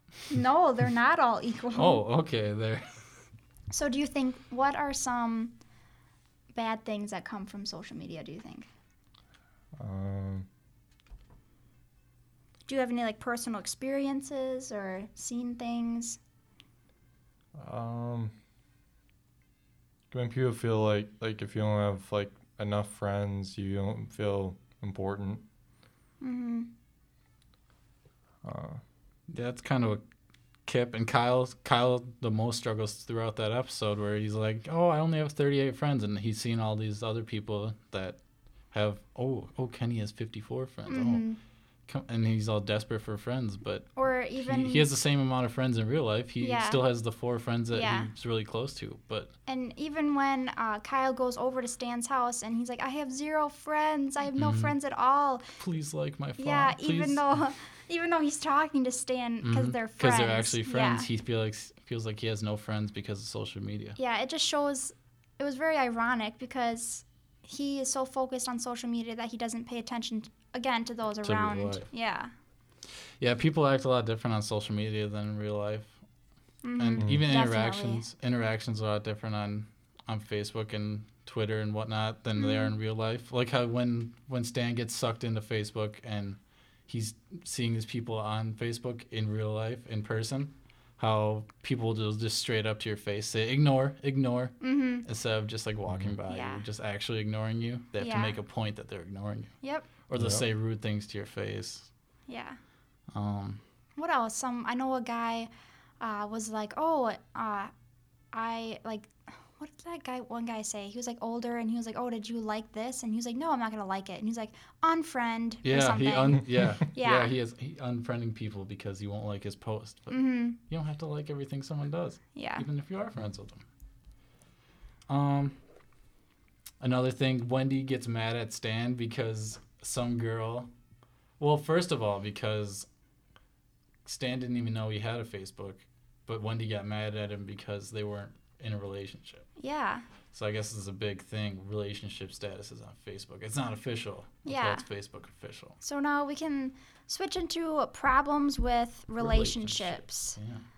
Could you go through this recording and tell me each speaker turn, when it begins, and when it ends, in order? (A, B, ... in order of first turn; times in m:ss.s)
0:00.3-0:02.0 A
0:01.8-0:02.8 B
0:03.7-0:05.6 A
0:06.5-0:08.7 A
0:09.8-0:10.5 C
0:12.7-0:16.2 A
0:17.6-0:18.3 C
0:20.1-0:25.4 C
0:26.2-0:26.7 A
0:28.4-0:28.8 C
0:29.3-0:30.0 B
0:30.7-0:38.2 B
0:38.7-0:41.2 B
0:40.9-0:41.4 A
0:41.9-0:43.9 B
0:44.0-0:44.9 A
0:44.4-0:49.3 B
0:46.4-0:46.8 A
0:47.7-0:48.1 A
0:49.5-0:55.5 A
0:54.4-0:54.7 B
0:55.6-0:57.2 B
0:56.4-1:01.1 A
0:59.4-1:04.0 B
1:04.0-1:12.3 A
1:11.2-1:11.9 B
1:13.2-1:15.9 B
1:16.6-1:18.0 A
1:16.8-1:39.5 B
1:17.0-1:17.2 C
1:22.4-1:22.7 A
1:34.6-1:35.1 A
1:36.3-1:36.6 A
1:38.0-1:38.4 A
1:39.6-1:39.9 A
1:40.1-1:41.9 B
1:40.2-1:40.4 C
1:42.3-1:42.6 A
1:43.1-1:43.6 B
1:44.0-1:47.7 A
1:48.3-1:57.3 A
1:55.6-2:03.6 B
2:00.1-2:00.6 A
2:02.4-2:02.6 A
2:05.1-2:05.6 B
2:06.8-2:10.7 B
2:11.4-2:12.9 B
2:14.0-2:19.4 B
2:19.6-2:20.0 A
2:20.3-2:25.8 B
2:24.5-2:24.8 A
2:25.8-2:30.4 A
2:29.2-2:30.6 B